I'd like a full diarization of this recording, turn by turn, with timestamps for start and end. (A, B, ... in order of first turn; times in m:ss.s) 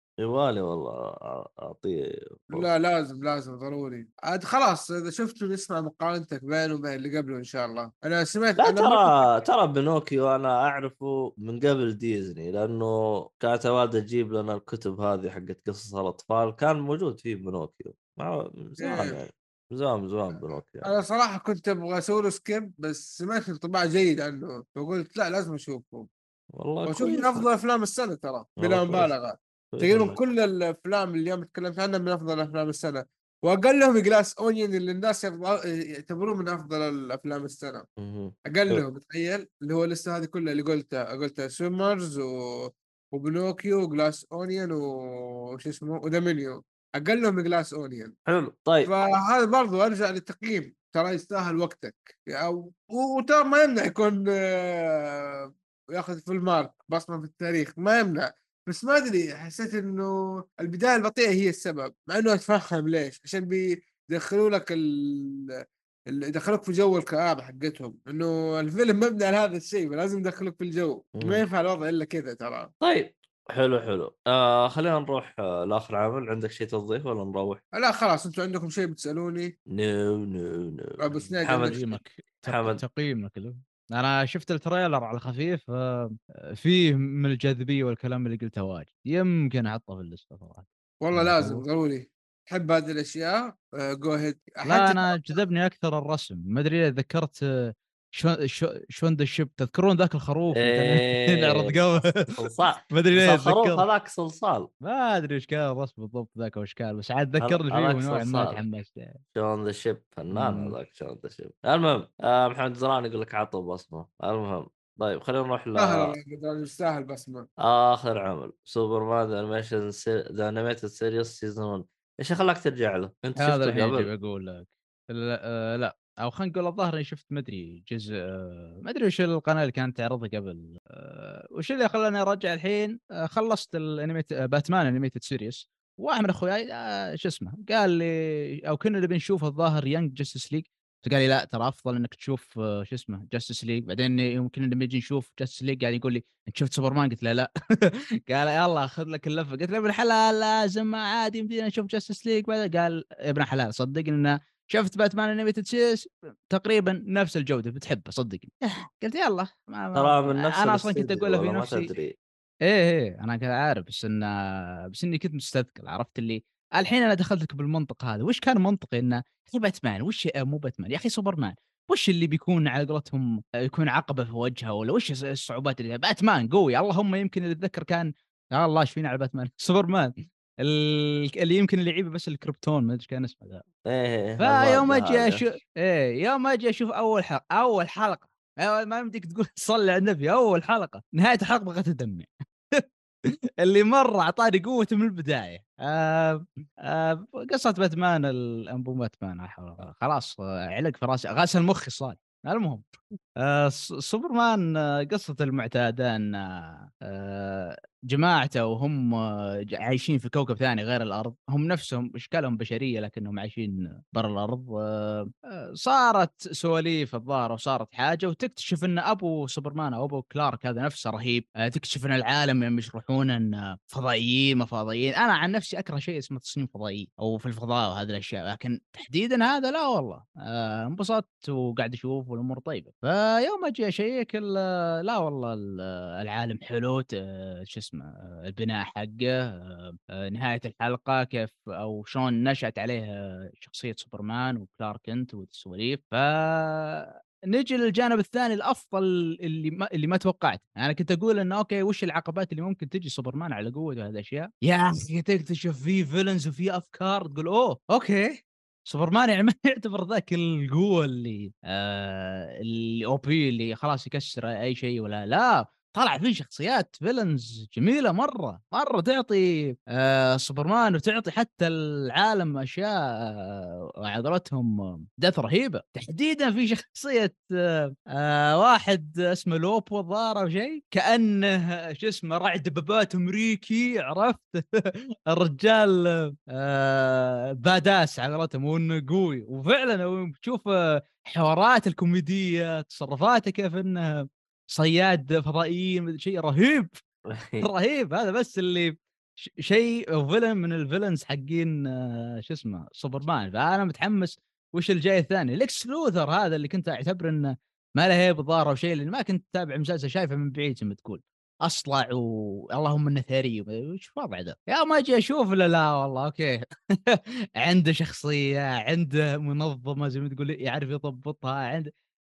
0:00.2-0:02.7 A
0:02.5-0:09.3 B
0:08.6-0:20.9 A
0:18.8-0:19.1 B
0:20.8-0:26.1 B
0:26.6-0:27.4 A
0:26.8-0:37.8 B
0:28.6-0:29.1 A
0:29.7-0:30.2 A
0:38.0-0:38.8 A
0:38.5-0:42.3 B
0:43.1-0:48.2 B
0:48.3-0:48.9 A
0:48.8-1:05.5 B
1:06.1-1:12.7 B
1:11.2-1:11.4 A
1:12.8-1:17.6 A
1:17.8-1:19.5 B
1:19.7-1:21.8 A
1:21.0-1:21.8 B
1:21.5-1:31.6 C
1:22.4-1:22.8 A
1:31.0-1:35.4 B
1:34.6-1:42.2 C
1:40.5-1:44.7 A
1:42.9-1:43.8 C
1:44.8-1:49.2 C
1:47.4-1:48.6 A
1:49.3-1:56.1 A
1:50.3-1:50.7 C
1:55.8-1:57.5 B
1:57.6-2:04.1 A
2:03.4-2:41.9 C
2:39.9-2:42.2 A
2:42.6-3:03.6 C
3:03.8-3:05.4 A
3:04.4-3:12.8 C
3:13.6-3:22.8 C
3:23.4-3:29.1 C
3:29.7-4:57.0 C
4:57.3-4:57.7 A
4:57.6-5:21.9 C